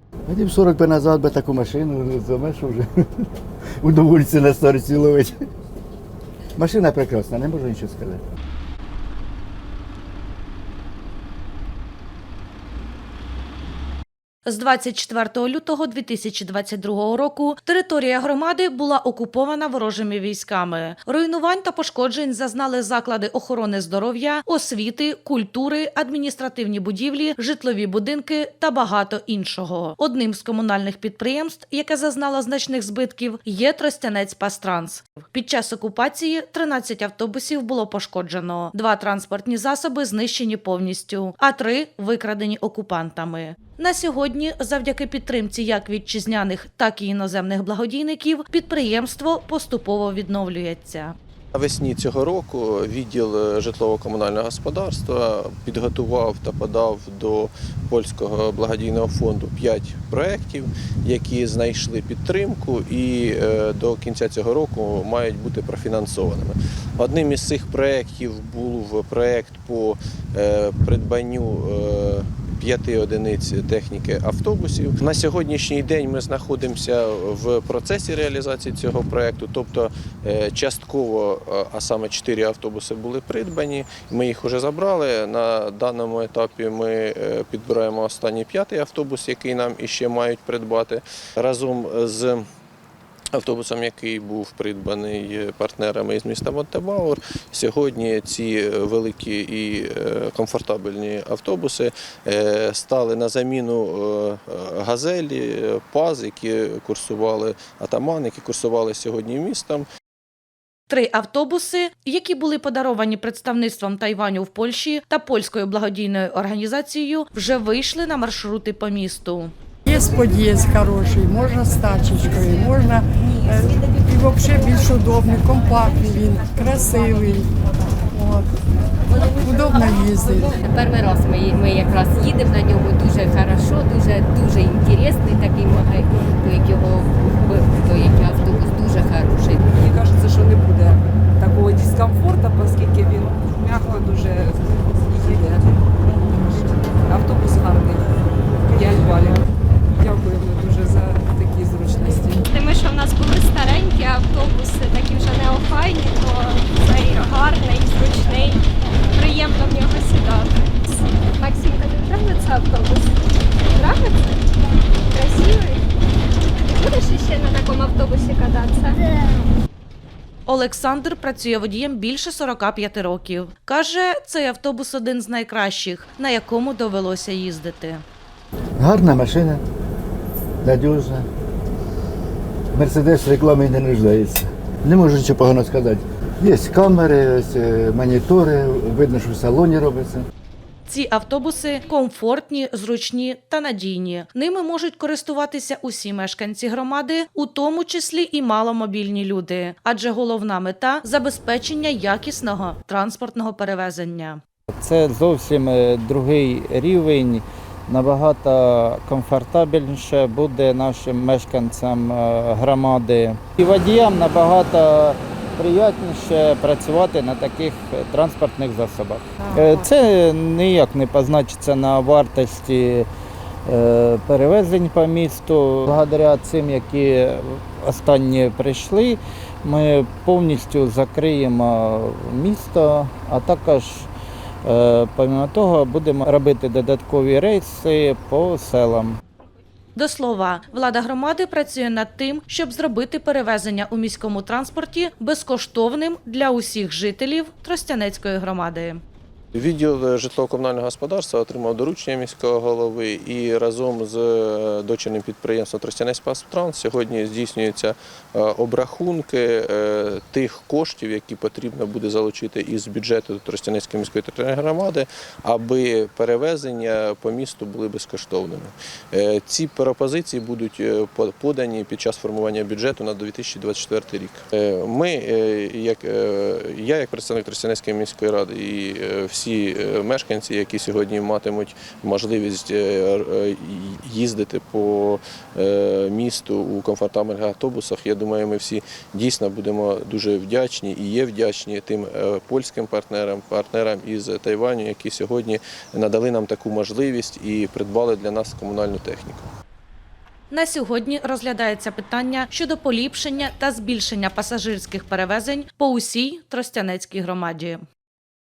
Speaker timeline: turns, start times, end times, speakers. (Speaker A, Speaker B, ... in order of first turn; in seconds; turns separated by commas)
Speaker A: 0.3-2.9, Speaker A: 3.8-5.4, Speaker A: 6.6-8.2, Speaker B: 14.5-51.2, Speaker C: 51.5-92.4, Speaker C: 93.3-109.9, Speaker B: 110.9-119.5, Speaker D: 119.9-127.5, Speaker D: 128.1-128.5, Speaker D: 129.4-130.6, Speaker E: 130.4-139.6, Speaker F: 139.7-152.4, Speaker G: 152.4-163.2, Speaker G: 163.7-164.4, Speaker G: 165.1-165.8, Speaker G: 166.7-169.2, Speaker B: 170.5-178.0, Speaker A: 178.8-179.6, Speaker A: 180.6-181.3, Speaker A: 182.7-190.3, Speaker B: 190.9-204.4, Speaker H: 204.8-223.1, Speaker H: 223.7-234.1, Speaker H: 234.7-239.2, Speaker B: 240.0-249.0, Speaker C: 249.5-299.5, Speaker B: 300.5-307.8